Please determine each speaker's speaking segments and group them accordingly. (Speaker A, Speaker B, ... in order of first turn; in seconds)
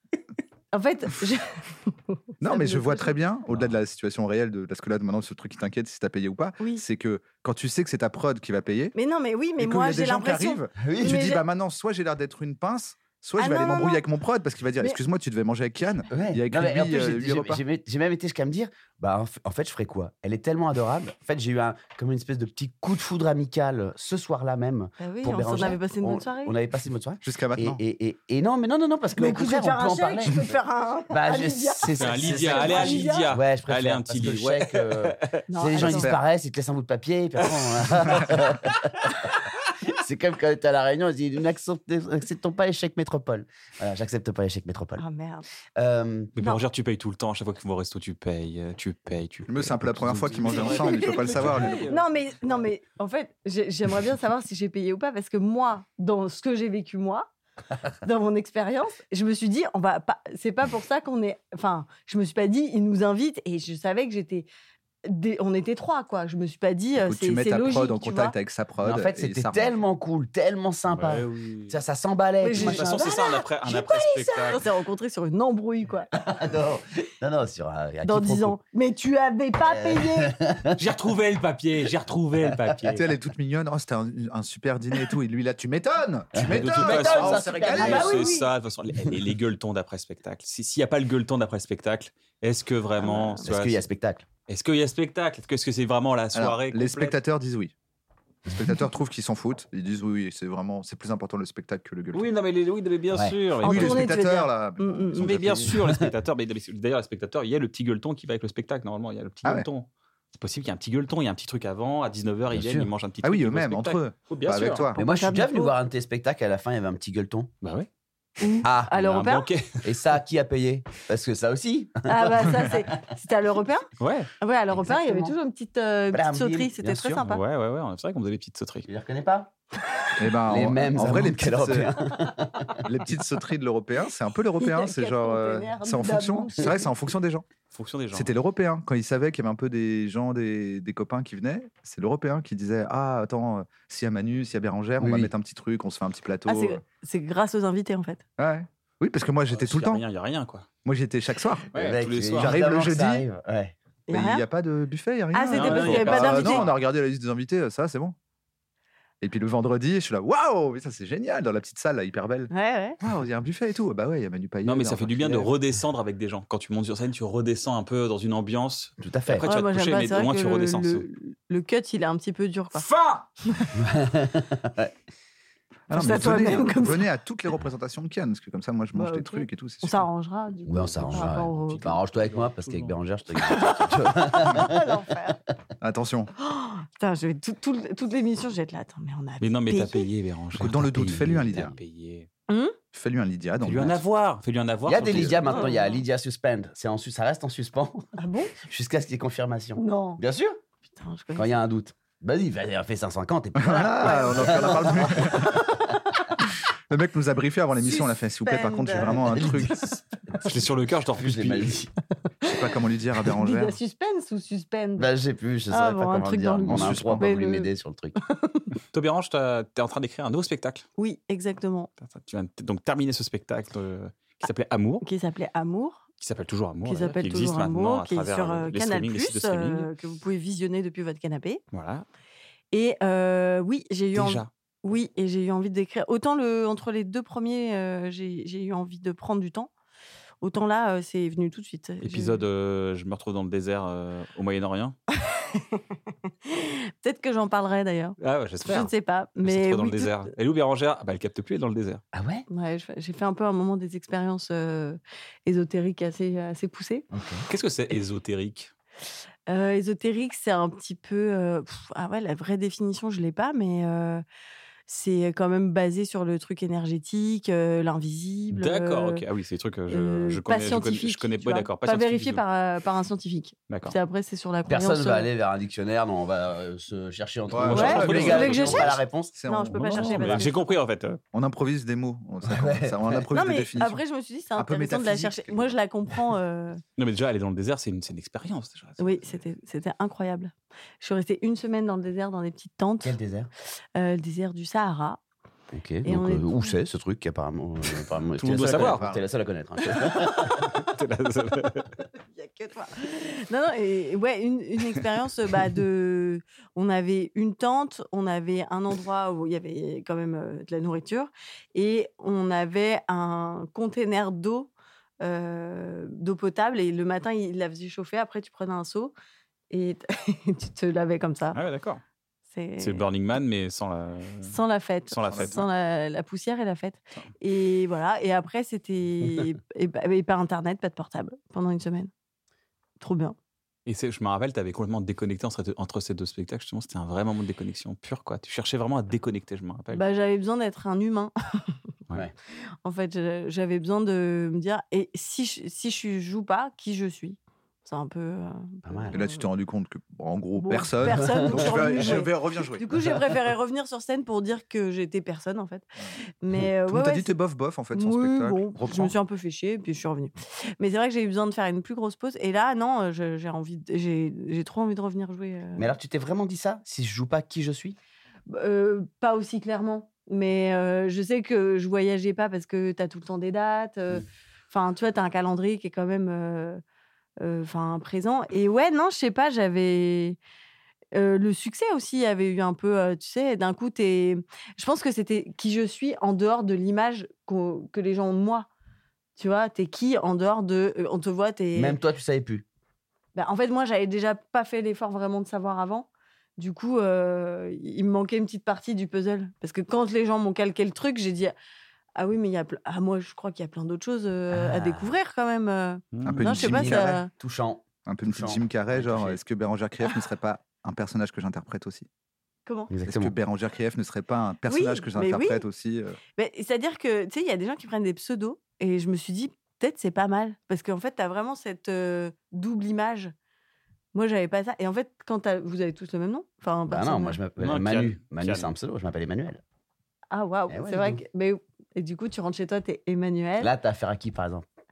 Speaker A: 0.7-3.2, 9.0-11.4, 13.4-14.0, 25.0-26.6, 29.2-33.3, 35.5-36.1, 45.0-45.5, 51.7-57.3, 58.0-64.5, 65.0-68.3, 72.4-76.1, 78.0-80.3, 87.6-88.5, 93.0-93.4, 103.6-105.3, 115.0-115.8, 118.4-119.5, 122.1-123.9, 124.4-127.4, 134.6-136.8, 146.5-148.2, 154.1-154.4, 155.3-156.7, 162.5-163.0, 169.5-172.9, 175.9-177.1, 178.9-182.0, 183.4-185.4, 186.4-190.1, 192.5-192.8, 195.5-196.0, 198.2-198.5, 199.8-200.2, 200.9-201.6, 204.0-206.2, 207.8-209.6, 212.3-212.6, 213.2-215.1, 215.7-218.7, 221.0-221.9, 225.0-226.0, 226.9-231.6, 232.7-239.7, 240.4-242.5, 245.2-245.8, 246.4-250.2, 252.5-257.1, 259.5-264.2, 264.9-269.2, 269.9-275.3, 277.7-280.7, 283.3-286.8, 289.0-293.2, 293.9-295.2, 296.1-296.7, 300.2-300.8, 302.3-319.1, 319.7-321.6, 322.5-323.1, 324.4-332.1, 333.0-333.4, 339.9-341.7, 342.8-349.4, 350.6-355.9, 356.4-357.3, 357.9-365.9, 368.5-376.8, 377.4-380.4, 381.1-388.7, 389.4-392.0, 393.4-401.5, 402.2-407.3, 414.7-415.6, 416.4-423.3, 424.1-427.4, 430.3-433.7
Speaker B: 2.4-8.9, 9.6-17.6, 27.2-27.8, 35.8-36.2, 49.5-51.8, 67.0-69.7, 83.0-88.2, 96.3-97.7, 98.5-102.3, 103.6-105.8, 113.2-115.0, 130.2-131.9, 132.8-137.4, 138.1-146.8, 148.4-150.0, 150.8-151.7, 152.4-153.2, 154.1-158.2, 159.2-165.5, 175.9-180.1, 185.8-186.3, 190.6-191.8, 192.9-194.0, 203.6-205.6, 206.5-209.9, 212.4-213.8, 216.7-217.3, 277.5-278.8, 279.4-280.4, 281.3-284.0, 284.6-285.7, 298.6-299.2, 325.3-325.6, 349.1-353.0, 356.9-359.1, 406.2-407.2, 408.1-412.1, 413.1-416.2
Speaker C: 10.8-11.3, 16.1-30.6, 31.1-39.1, 39.9-45.0, 45.8-46.3, 50.0-51.8, 68.8-73.2, 76.1-78.6, 79.6-80.8, 82.5-83.0, 86.3-88.3, 93.4-94.2, 103.1-103.4, 105.7-106.0, 112.5-112.9, 115.0-117.5, 118.6-123.0, 124.7-125.4, 126.1-127.2, 128.8-129.5, 130.4-132.8, 145.0-145.3, 151.7-153.7, 169.0-169.5, 173.7-174.9, 180.7-185.3, 190.9-191.7, 194.9-200.6, 201.4-205.7, 208.9-211.9, 215.0-218.2, 252.1-252.5, 257.1-257.4, 274.6-279.4, 282.4-283.3, 293.0-293.5, 295.7-300.7, 348.9-349.2, 351.0-352.2, 365.8-368.0, 391.7-392.6, 404.5-405.1, 406.6-409.4, 412.9-413.4, 426.9-429.6, 430.7-431.2, 433.6-434.6
Speaker D: 32.0-35.4, 37.4-38.3, 46.4-52.0, 70.9-71.8, 72.5-74.6, 80.8-83.0, 86.4-93.8, 94.5-97.2, 102.1-104.2, 105.2-114.9, 117.6-117.9, 119.0-120.0, 124.0-124.3, 127.3-128.9, 137.7-138.3, 149.5-150.7, 151.7-152.5, 155.5-156.7, 164.6-171.1, 172.7-173.3, 181.0-183.0, 189.4-192.3, 193.6-195.7, 210.4-211.8, 218.9-220.9, 222.0-225.1, 226.2-229.9, 231.7-232.1, 234.1-234.5, 242.0-245.0, 248.2-248.9, 249.4-252.0, 257.5-258.7, 268.5-272.4, 273.7-273.9, 277.5-279.0, 279.7-281.2, 287.0-289.4, 298.4-299.0, 300.6-301.9, 321.5-322.0, 322.8-324.6, 325.1-325.7, 333.9-340.0, 406.1-406.7, 427.6-428.7